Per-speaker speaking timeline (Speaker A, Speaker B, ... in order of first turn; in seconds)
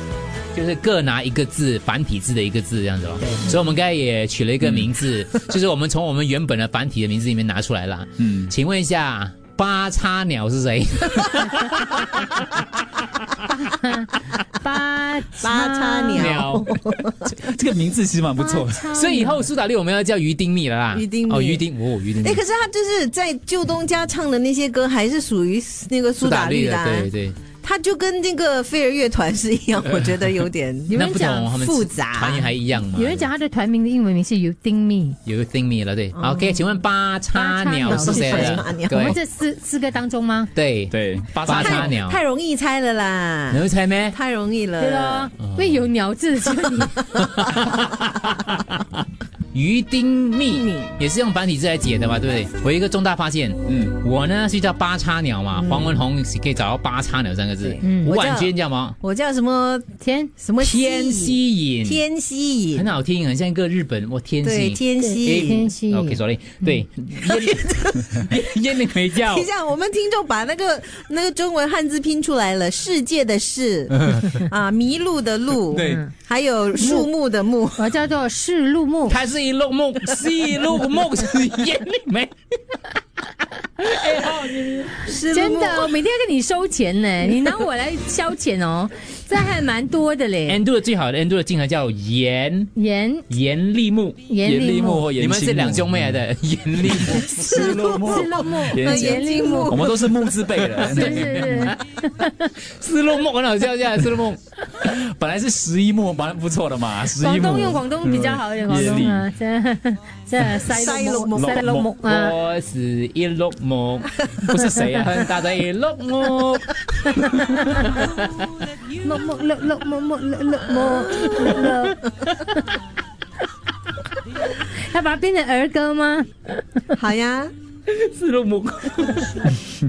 Speaker A: 0.5-13.4, 16.1-16.8, 18.9-22.4, 26.2-27.4, 30.9-33.3, 35.2-39.2, 40.5-42.2, 43.5-44.2, 45.5-45.8, 47.2-48.8, 49.5-59.0, 60.6-62.0, 62.7-69.5, 74.0-74.3, 75.7-76.0, 79.1-82.3, 83.8-85.1, 90.5-92.7, 93.3-94.2, 95.2-98.0, 100.9-101.7, 102.7-104.4, 112.0-118.2, 127.9-129.6
Speaker B: 8.2-8.5, 17.4-18.9, 40.9-42.0, 53.7-53.9, 94.4-96.2, 97.0-101.7, 104.8-109.3, 111.3-111.9
Speaker C: 13.6-16.4, 18.4-19.4, 30.9-31.4, 32.9-35.2, 37.3-40.5, 44.8-47.1, 57.8-58.1, 60.0-60.3, 65.0-66.8, 75.8-76.1, 76.8-77.1, 77.8-79.2, 85.2-90.6, 92.7-93.3, 94.3-95.1, 97.3-100.0, 100.7-102.5, 107.1-112.3, 114.6-114.8, 117.1-117.7, 119.0-122.7, 124.5-126.8
Speaker D: 15.4-17.4, 20.9-21.6, 22.2-27.1, 27.6-32.5, 36.2-36.6, 37.8-39.2, 41.5-45.3, 50.5-50.9, 55.6-56.0, 57.6-62.9, 64.4-65.7, 67.2-68.2, 69.2-77.8, 85.0-85.9, 97.4-100.6, 110.7-111.6, 121.1-121.4, 126.9-127.5